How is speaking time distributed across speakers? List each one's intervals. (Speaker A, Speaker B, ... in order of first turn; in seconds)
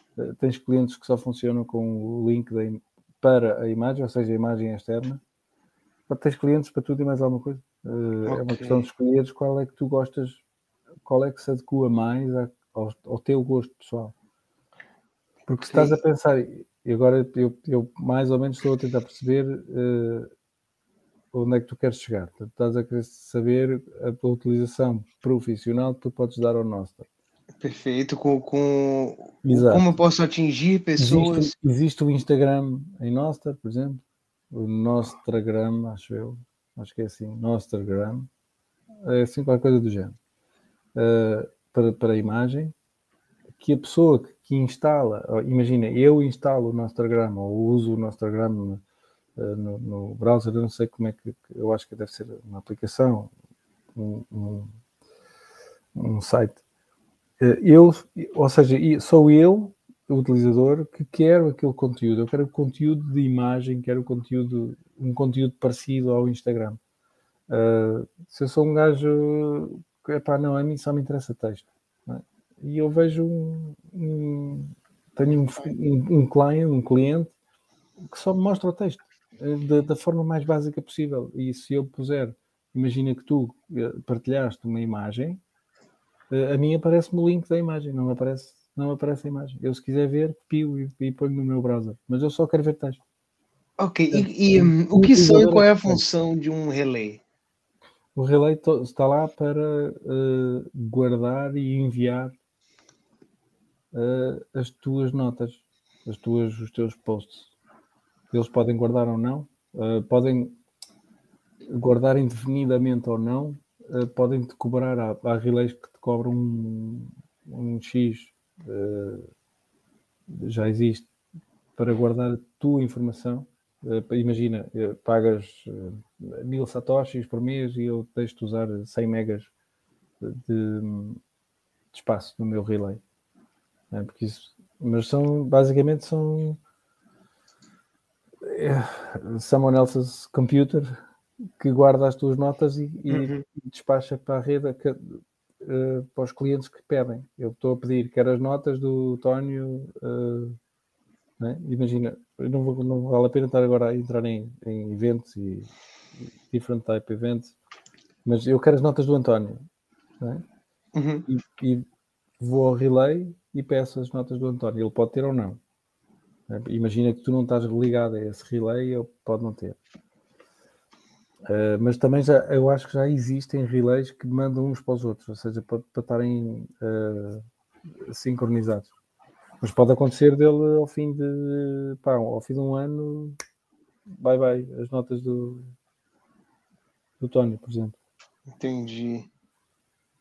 Speaker A: 0.2-5.2, 6.1-10.4, 11.0-14.1, 15.5-20.3, 21.3-27.1, 29.4-30.0, 31.0-38.3, 39.0-40.1, 40.9-42.7, 43.6-48.8, 49.4-53.3, 53.9-54.7, 55.9-56.6, 57.4-66.8, 67.5-77.3, 78.0-85.4, 86.3-93.0, 94.1-96.0, 98.1-102.3, 103.9-107.5, 108.3-110.6, 111.7-119.3, 120.3-121.1, 121.8-129.5, 130.2-131.2, 131.9-133.0, 133.9-136.6, 138.4-141.0, 141.6-150.6, 151.4-157.5, 158.2-159.6, 161.3-161.8, 162.4-165.6, 166.5-169.8, 171.5-177.4, 178.0-178.9, 179.6-183.4, 184.1-185.7, 187.2-187.9
Speaker B: 8.2-8.9, 15.6-16.0, 27.6-31.5, 93.8-97.2, 143.1-143.4, 160.9-161.2, 188.6-189.3